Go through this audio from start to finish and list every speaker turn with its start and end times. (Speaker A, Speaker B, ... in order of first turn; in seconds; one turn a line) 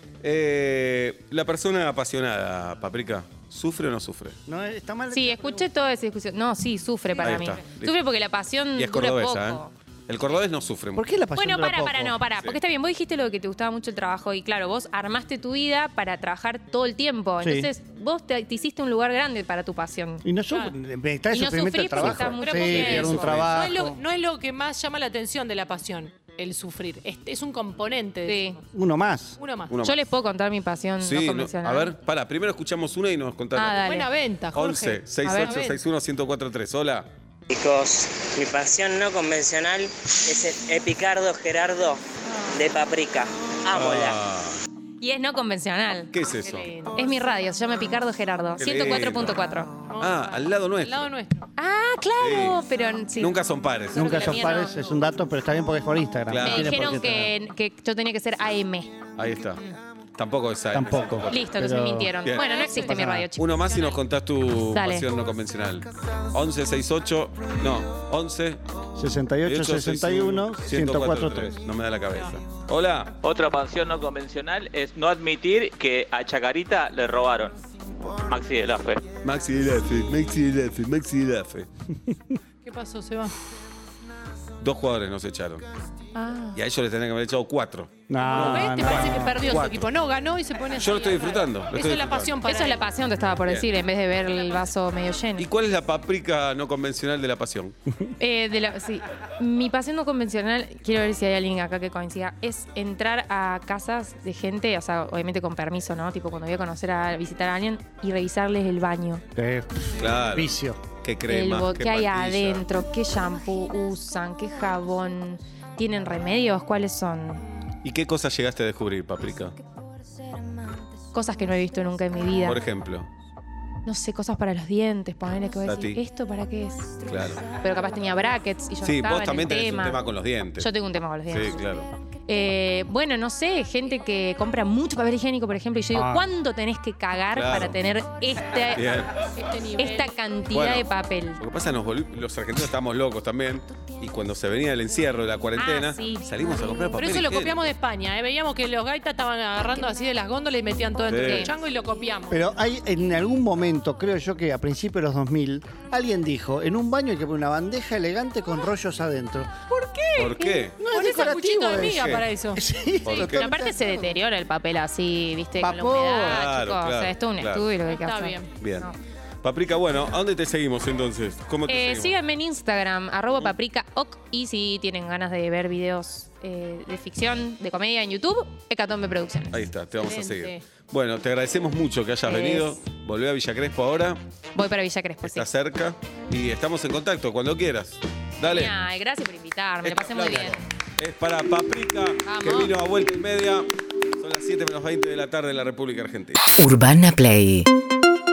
Speaker A: 0.2-4.4
Speaker B: 4.5-5.7
Speaker C: 5.1-9.7
Speaker A: 7.2-8.0
Speaker A: 8.8-11.1
Speaker B: 10.9-12.2
Speaker C: 11.4-20.2
Speaker B: 17.4-17.7
Speaker B: 20.2-24.0
Speaker C: 21.3-23.3
Speaker D: 22.4-28.7
Speaker A: 22.7-23.7
Speaker C: 28.2-28.6
Speaker B: 28.7-29.4
Speaker D: 29.4-29.8
Speaker A: 29.7-30.1
Speaker C: 29.8-31.9
Speaker A: 31.0-33.8
Speaker C: 33.6-34.1
Speaker D: 33.8-35.8
Speaker A: 34.5-37.1
Speaker C: 35.2-35.5
Speaker E: 37.5-42.0
Speaker F: 38.2-38.5
Speaker F: 40.3-41.6
Speaker E: 42.5-44.1
Speaker A: 43.7-44.6
Speaker C: 45.0-46.1
Speaker A: 46.1-46.7
Speaker D: 46.4-47.4
Speaker C: 47.0-49.8
Speaker A: 48.6-49.4
Speaker D: 49.9-51.4
Speaker A: 50.0-51.1
Speaker C: 51.6-53.4
Speaker A: 52.2-52.6
Speaker A: 53.2-54.5
Speaker C: 53.9-54.7
Speaker B: 53.9-57.3
Speaker A: 56.3-57.0
Speaker C: 56.4-59.0
Speaker A: 59.2-59.6
Speaker A: 60.1-61.5
Speaker B: 60.7-62.2
Speaker C: 61.3-63.9
Speaker A: 62.2-62.7
Speaker D: 62.4-63.0
Speaker B: 62.7-63.3
Speaker A: 63.4-68.6
Speaker C: 64.7-65.1
Speaker B: 69.0-71.6
Speaker A: 69.5-73.2
Speaker G: 73.2-77.6
Speaker G: 78.2-79.1
Speaker A: 79.2-81.7
Speaker B: 82.0-82.4
Speaker D: 82.6-83.4
Speaker A: 84.6-85.7
Speaker C: 86.2-86.6
Speaker A: 86.5-89.8
Speaker B: 88.1-89.9
Speaker D: 88.2-92.8
Speaker A: 90.8-92.3
Speaker C: 92.4-95.5
Speaker A: 93.4-93.7
Speaker A: 95.4-97.8
Speaker C: 98.2-109.2
Speaker B: 109.3-110.8
Speaker A: 110.0-112.7
Speaker C: 111.3-117.4
Speaker A: 117.8-119.6
Speaker C: 121.1-122.6
Speaker A: 122.4-123.1
Speaker C: 123.9-130.0
Speaker A: 125.7-126.0
Speaker A: 127.1-127.5
Speaker A: 128.8-130.7
Speaker C: 130.6-131.7
Speaker A: 131.3-131.9
Speaker C: 132.2-138.9
Speaker B: 135.9-136.3
Speaker A: 137.3-137.8
Speaker A: 138.7-139.3
Speaker D: 139.3-140.1
Speaker C: 139.8-141.4
Speaker A: 140.5-147.6
Speaker C: 145.6-146.3
Speaker D: 146.9-152.5
Speaker A: 151.1-151.5
Speaker C: 151.1-151.5
Speaker B: 152.3-159.6
Speaker D: 159.7-164.0
Speaker A: 160.2-160.8
Speaker B: 160.8-163.8
Speaker A: 161.8-162.2
Speaker A: 163.0-163.5
Speaker C: 163.3-169.0
Speaker B: 165.6-166.4
Speaker A: 166.2-167.7
Speaker D: 167.8-168.5
Speaker A: 168.6-168.9
Speaker A: 169.4-172.2
Speaker C: 171.7-179.7
Speaker A: 179.5-184.2
Speaker D: 180.0-180.6
Speaker C: 182.3-182.8
Speaker C: 184.6-185.5
Speaker A: 185.2-188.8
Speaker C: 188.4-190.6
Speaker A: 189.8-196.5
Speaker C: 192.2-192.7
Speaker F: 196.6-197.7